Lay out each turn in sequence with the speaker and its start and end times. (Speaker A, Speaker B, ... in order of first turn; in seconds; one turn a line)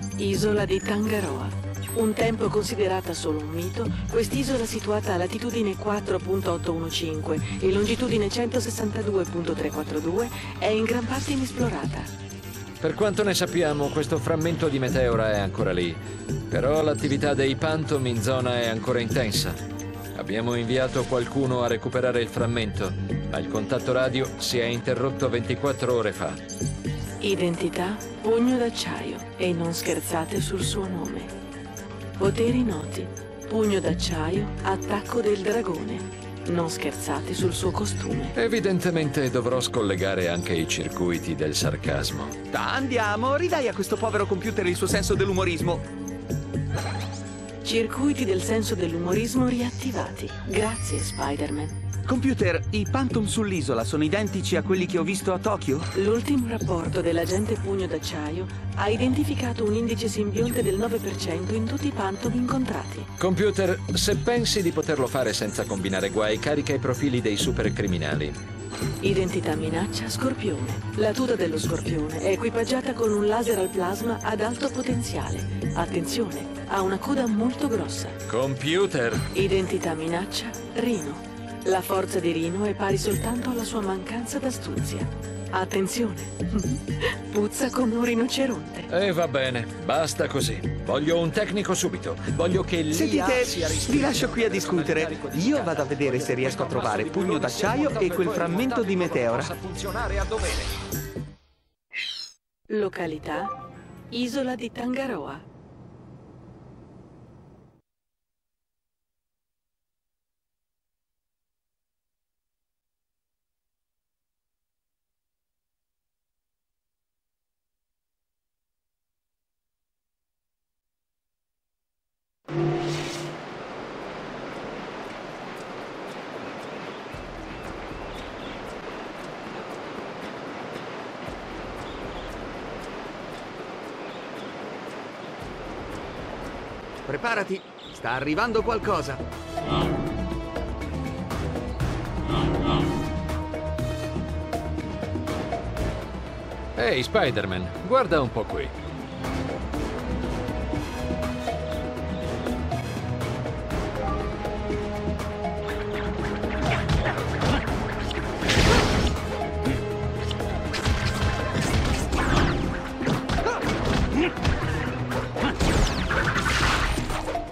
Speaker A: 0.2-12.1
Speaker B: 12.8-19.6
Speaker B: 20.1-26.4
Speaker A: 27.2-31.3
Speaker A: 32.2-38.4
Speaker B: 38.4-42.4
Speaker C: 42.5-45.9
Speaker A: 47.6-51.8
Speaker C: 52.1-55.9
Speaker A: 55.9-63.1
Speaker B: 63.2-68.4
Speaker A: 69.0-78.2
Speaker B: 78.3-79.3
Speaker A: 79.3-88.9
Speaker B: 88.9-100.8
Speaker C: 92.9-99.5
Speaker A: 102.7-103.6
Speaker A: 104.1-105.4
Speaker C: 137.1-139.2
Speaker B: 146.8-148.8